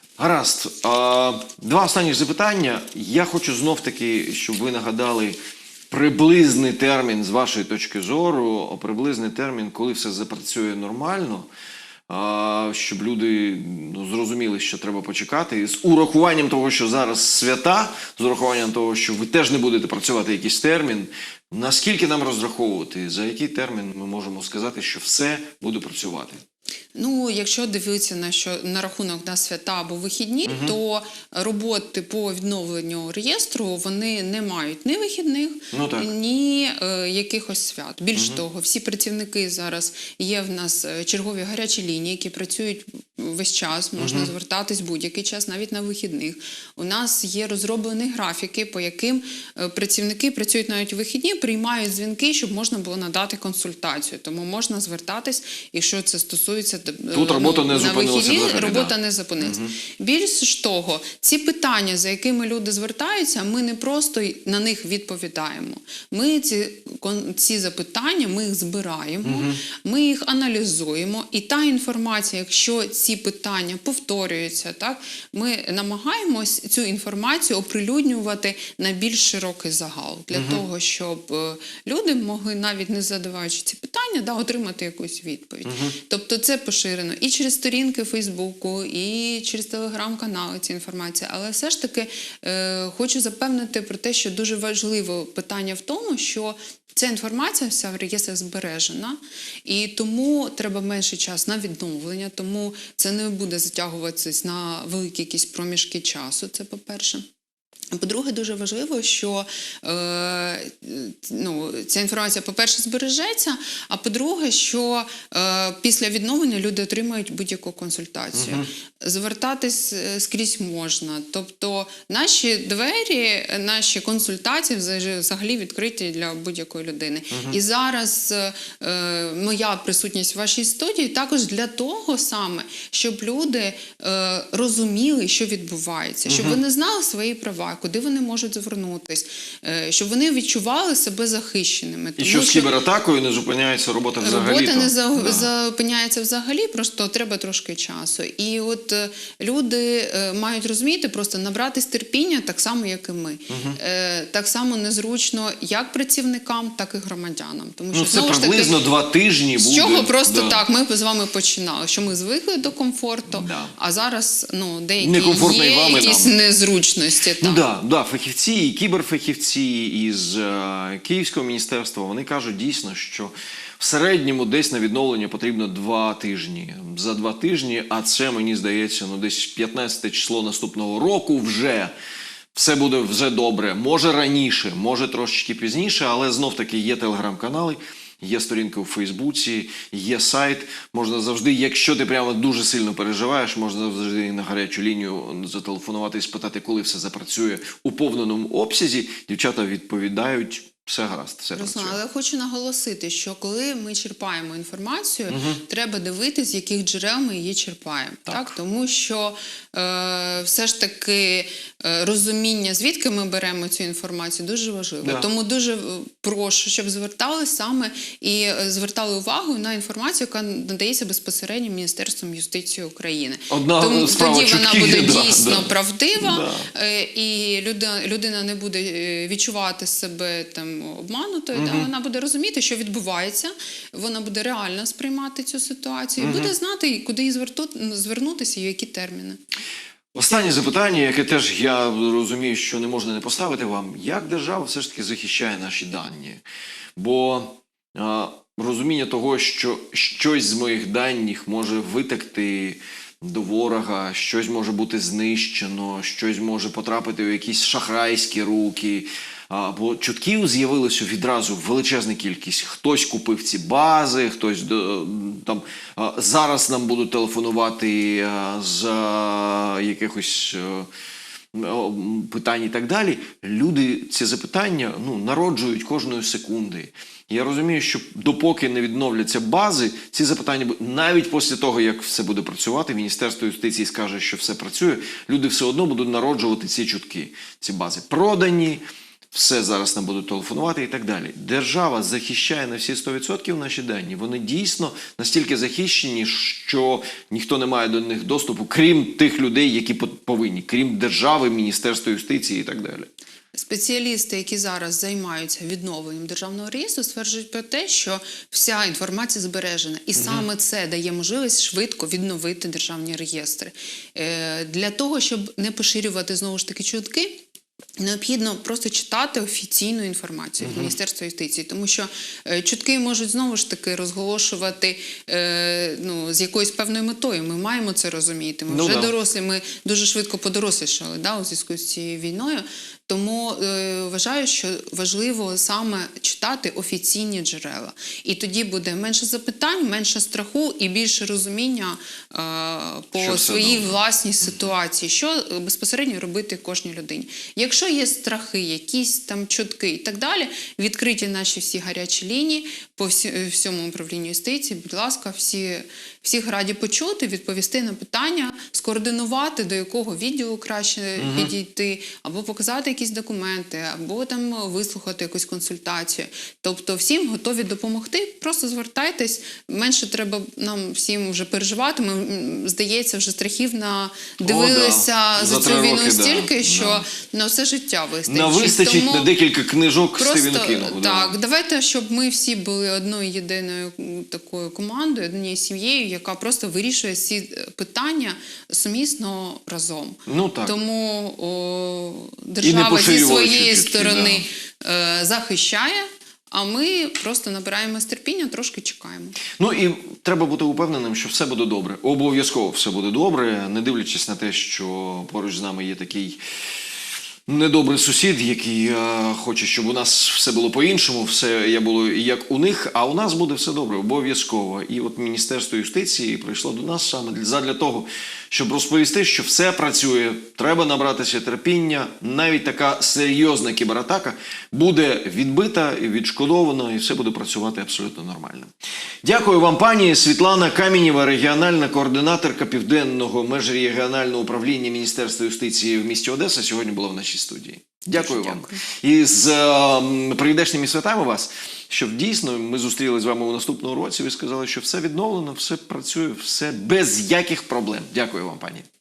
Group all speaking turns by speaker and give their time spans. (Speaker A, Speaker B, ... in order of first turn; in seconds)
Speaker A: 0.2-5.3, 5.9-11.5, 12.1-26.4, 30.5-30.7, 35.7-36.1, 44.0-44.3, 57.1-59.7, 69.2-69.6, 80.3-80.6, 85.7-85.9, 118.3-118.7, 127.3-127.6, 136.3-136.6, 142.2-145.5, 153.5-153.8, 157.9-160.6, 163.3-163.7, 165.0-166.3, 167.4-181.9, 182.5-202.0, 205.3-205.6, 208.3-208.5, 223.5-226.7, 231.5-231.9, 236.2-236.5, 240.1-246.4, 246.9-270.9, 271.5-303.1, 310.2-310.4, 320.6-320.9, 328.7-329.1, 343.2-344.0, 361.2-361.5, 374.4-377.0, 378.3-381.3, 390.3-390.7, 392.6-394.4, 399.6-406.4, 407.5-448.9
Speaker B: 26.9-107.2, 107.9-142.7, 144.2-158.8, 159.6-167.6, 201.6-239.4, 303.5-317.4, 318.0-379.3, 380.1-399.4, 438.2-438.8